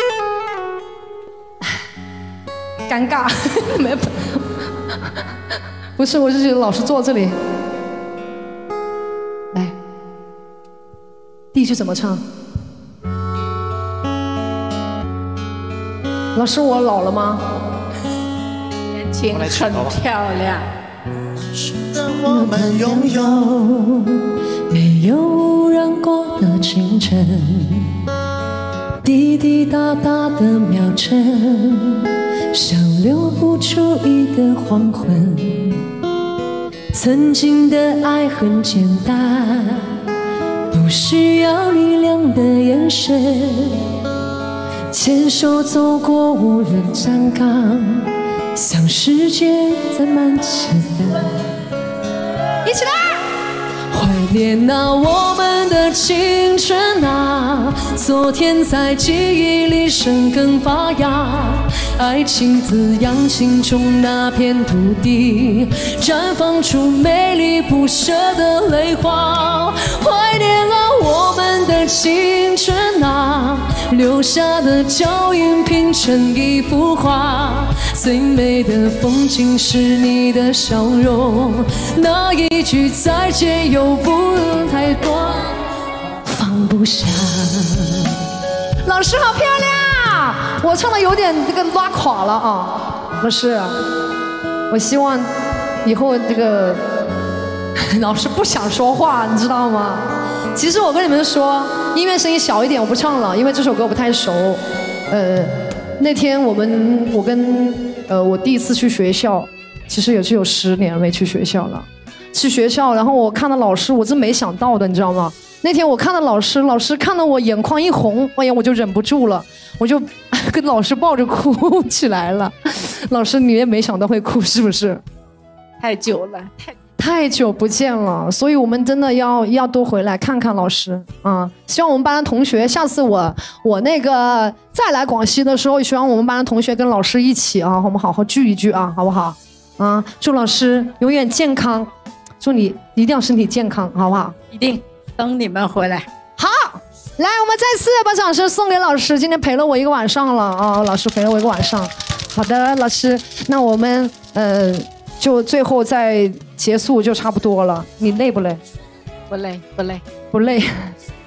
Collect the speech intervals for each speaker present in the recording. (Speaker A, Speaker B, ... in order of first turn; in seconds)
Speaker A: 2.9-4.4, 6.0-7.4, 11.5-12.2, 16.3-17.4, 22.3-24.1, 24.7-27.9, 31.8-32.7, 39.4-39.9, 42.6-43.8, 44.9-51.2, 52.6-53.2, 54.0-55.4, 57.6-58.0, 61.4-62.3, 63.0-66.0, 66.7-67.3, 72.0-76.4, 86.2-87.4, 88.8-93.8, 94.7-95.3, 95.8-96.8, 97.8-125.0, 127.0-144.4, 146.4-158.6, 160.3-160.9
Speaker B: 18.9-20.7, 125.8-126.8, 144.5-146.1, 159.3-160.0
Speaker C: 24.8-26.3, 29.1-31.9, 32.7-35.7, 36.9-39.8, 40.8-43.6, 45.1-47.1, 50.6-51.2, 54.0-61.5, 62.0-85.6, 87.3-88.2